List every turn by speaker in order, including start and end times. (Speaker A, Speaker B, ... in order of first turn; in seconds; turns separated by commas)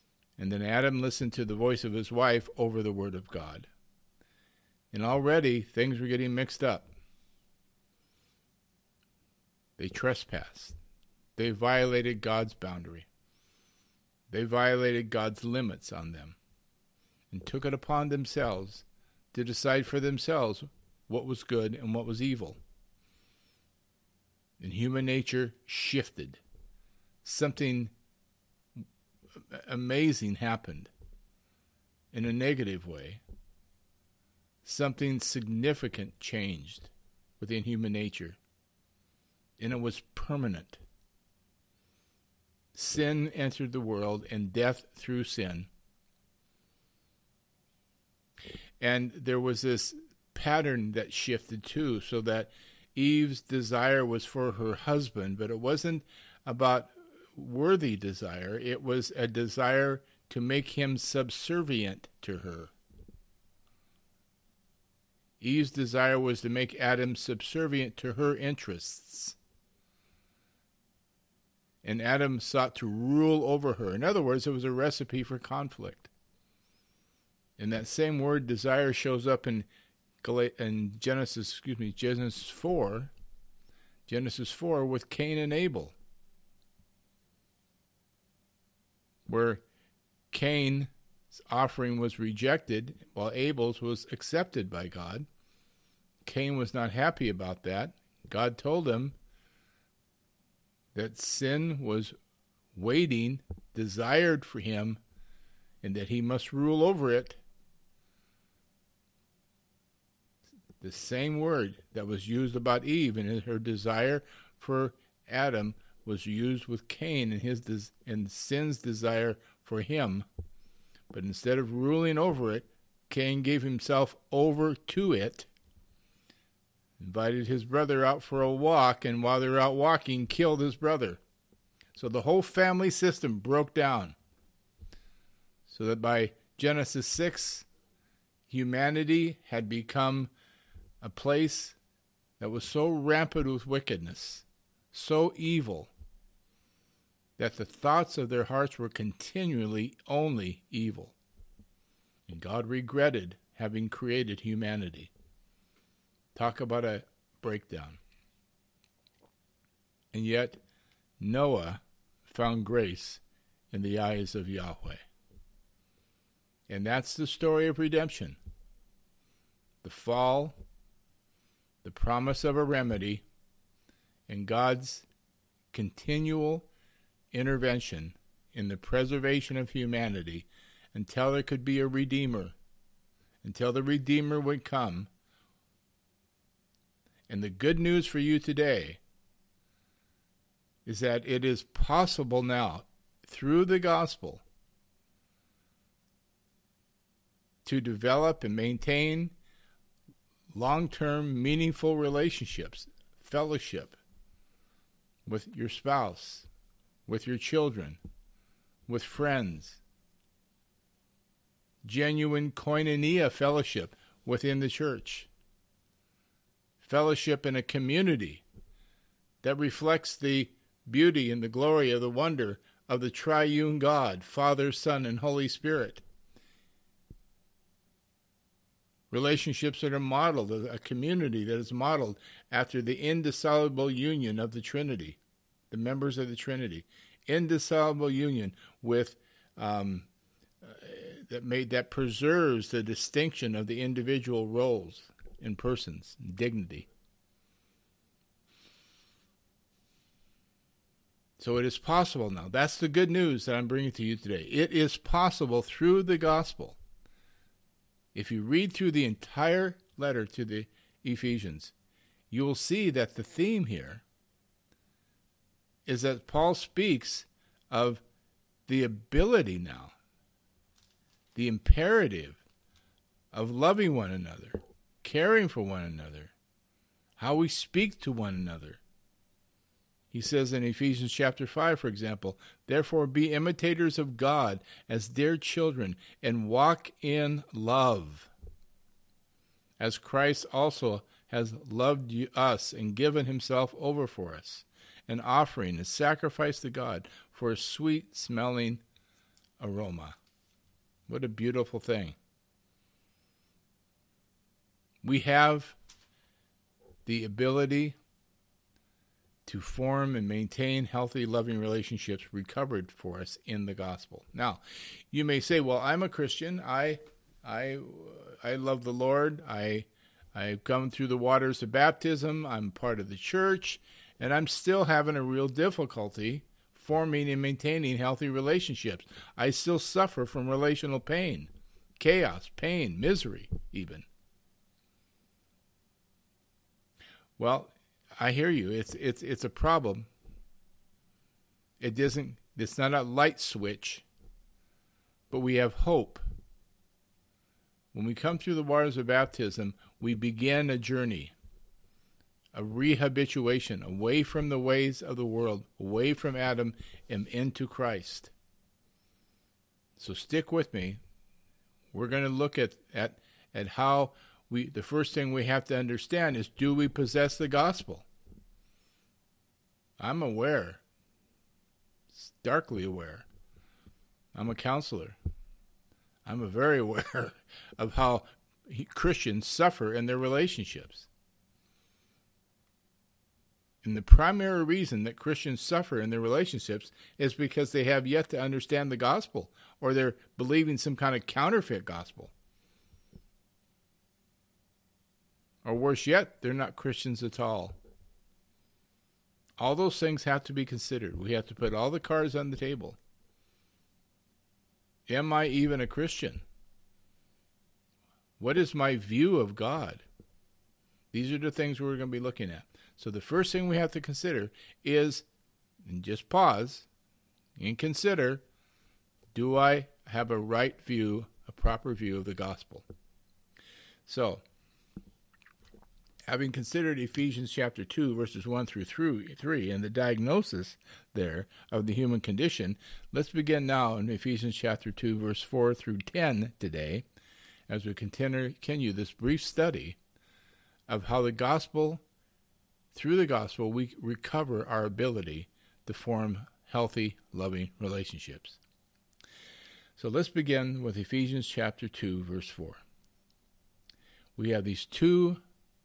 Speaker A: 0.4-3.7, Speaker A: 4.9-6.9, Speaker A: 9.8-10.8, Speaker A: 11.4-13.1, Speaker A: 14.3-16.4, Speaker A: 17.3-22.6, Speaker A: 24.6-26.4, Speaker A: 27.2-27.9, Speaker A: 29.5-30.9, Speaker A: 32.1-33.2, Speaker A: 34.6-38.4, Speaker A: 39.6-40.8, Speaker A: 42.7-45.7, Speaker A: 48.8-62.7, Speaker A: 65.4-69.3, Speaker A: 71.8-76.1, Speaker A: 77.6-79.7, Speaker A: 80.2-83.1, Speaker A: 84.1-86.0, Speaker A: 89.3-89.6, Speaker A: 90.3-95.2, Speaker A: 96.2-99.2, Speaker A: 100.9-102.1, Speaker A: 102.8-105.0, Speaker A: 105.8-107.4, Speaker A: 110.8-120.3, Speaker A: 121.1-125.5, Speaker A: 127.0-131.2, Speaker A: 131.9-134.2, Speaker A: 135.7-137.6, Speaker A: 138.5-140.3, Speaker A: 141.0-141.8, Speaker A: 142.4-145.9, Speaker A: 147.4-151.2, Speaker A: 152.3-155.1, Speaker A: 156.3-158.0, Speaker A: 160.1-160.6, Speaker A: 161.2-165.0, Speaker A: 166.7-168.4, Speaker A: 169.8-170.6, Speaker A: 171.8-173.2, Speaker A: 174.3-175.1, Speaker A: 175.7-176.7, Speaker A: 177.3-182.6, Speaker A: 183.4-185.1, Speaker A: 187.3-189.0, Speaker A: 190.8-194.4, Speaker A: 197.6-199.3, Speaker A: 200.5-204.0, Speaker A: 205.2-206.4, Speaker A: 207.1-208.0, Speaker A: 208.9-209.8, Speaker A: 211.8-215.3, Speaker A: 216.8-218.4, Speaker A: 219.4-226.0, Speaker A: 229.1-235.2, Speaker A: 235.7-240.1, Speaker A: 240.6-246.9, Speaker A: 251.4-256.8, Speaker A: 258.1-261.7, Speaker A: 262.3-264.0, Speaker A: 265.9-268.0, Speaker A: 268.7-269.9, Speaker A: 271.3-272.4, Speaker A: 273.3-276.3, Speaker A: 277.2-278.8, Speaker A: 280.1-288.3, Speaker A: 289.8-298.8, Speaker A: 299.6-300.2, Speaker A: 301.1-302.2, Speaker A: 305.0-305.7, Speaker A: 307.1-308.0, Speaker A: 309.4-334.1, Speaker A: 337.4-340.1, Speaker A: 341.8-344.1, Speaker A: 345.3-346.2, Speaker A: 347.9-351.3, Speaker A: 352.5-358.3, Speaker A: 360.0-361.0, Speaker A: 361.9-368.1, Speaker A: 370.0-370.8, Speaker A: 372.1-373.2, Speaker A: 374.3-375.2, Speaker A: 376.2-381.1, Speaker A: 383.8-392.3, Speaker A: 395.6-397.8, Speaker A: 399.6-403.0, Speaker A: 405.1-406.4, Speaker A: 408.4-410.1, Speaker A: 411.1-415.2, Speaker A: 415.8-416.9, Speaker A: 417.6-418.4, Speaker A: 419.3-422.8, Speaker A: 424.1-424.4, Speaker A: 426.3-437.1, Speaker A: 437.7-440.0, Speaker A: 440.9-442.0, Speaker A: 442.9-448.6, Speaker A: 450.0-452.8, Speaker A: 454.4-455.4